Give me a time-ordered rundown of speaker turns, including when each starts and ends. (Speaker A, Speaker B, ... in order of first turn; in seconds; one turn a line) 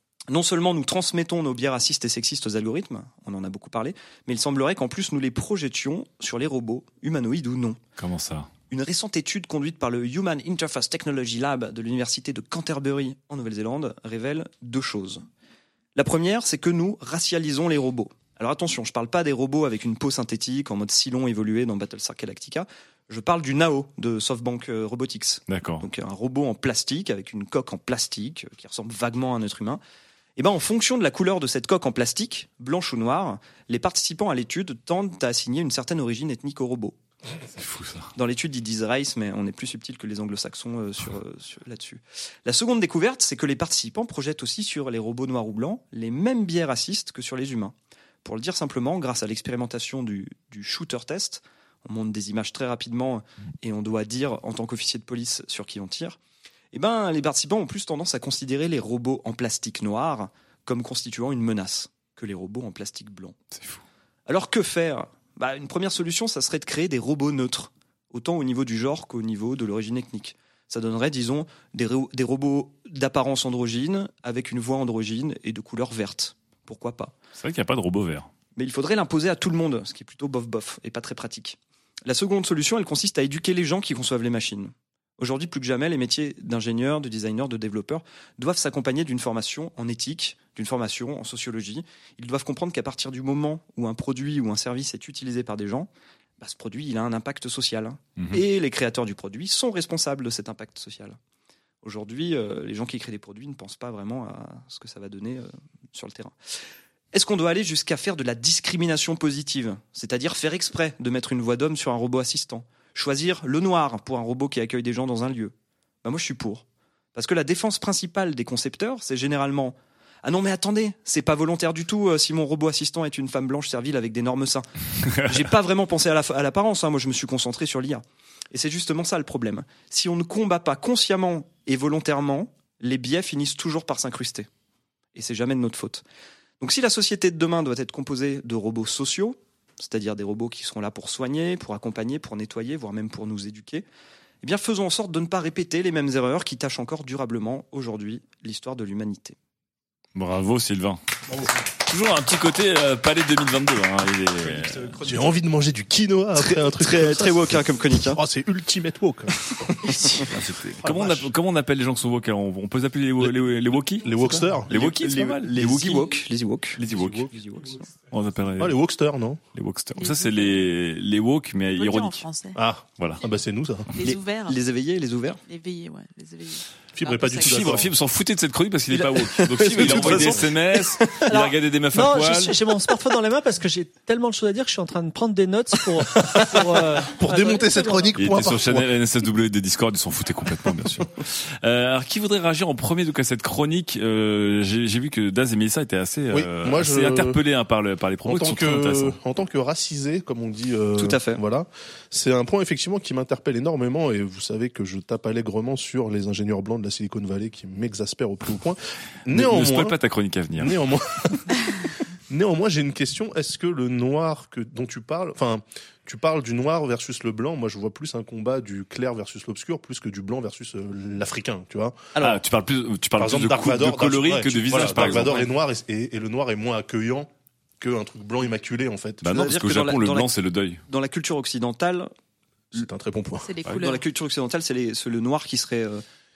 Speaker A: 0.3-7.8
Speaker B: 8.0-8.5
Speaker A: 8.7-15.2
Speaker A: 15.9-29.8
Speaker B: 25.5-25.9
Speaker A: 30.4-37.0
Speaker B: 37.5-38.1
Speaker A: 38.1-56.2
Speaker A: 56.7-63.4
Speaker B: 63.5-63.8
Speaker A: 64.3-77.2
Speaker B: 77.4-78.3
Speaker A: 78.6-101.2
Speaker B: 98.2-98.4
Speaker A: 101.8-106.4
Speaker A: 107.1-116.6
Speaker A: 117.2-134.5
Speaker A: 135.2-136.0
Speaker A: 136.6-143.8
Speaker A: 144.4-149.4
Speaker B: 150.2-151.0
Speaker B: 151.9-155.0
Speaker C: 154.5-161.3
Speaker A: 156.4-158.2
Speaker A: 159.9-160.3
Speaker B: 160.3-166.1
Speaker C: 164.0-164.7
Speaker A: 164.7-167.9
Speaker B: 166.8-167.3
Speaker C: 166.9-167.3
Speaker B: 168.1-168.8
Speaker C: 168.6-169.4
Speaker B: 169.6-172.2
Speaker D: 170.0-170.7
Speaker D: 171.8-172.6
Speaker C: 172.6-173.9
Speaker B: 173.0-173.2
Speaker D: 174.0-174.6
Speaker A: 174.0-175.4
Speaker D: 175.5-177.8
Speaker C: 177.0-177.9
Speaker B: 177.4-182.6
Speaker A: 178.9-181.3
Speaker C: 179.8-180.4
Speaker E: 181.3-188.1
Speaker C: 186.2-188.9
Speaker B: 188.2-199.2
Speaker C: 196.3-197.4
Speaker C: 198.2-210.0
Speaker A: 201.0-201.4
Speaker B: 209.3-210.8
Speaker C: 210.6-211.7
Speaker C: 212.3-222.1
Speaker B: 222.2-225.5
Speaker C: 223.2-229.3
Speaker A: 224.7-225.5
Speaker B: 229.2-230.8
Speaker A: 229.3-230.3
Speaker A: 230.9-232.1
Speaker C: 232.7-233.5
Speaker D: 233.4-234.0
Speaker A: 233.8-236.0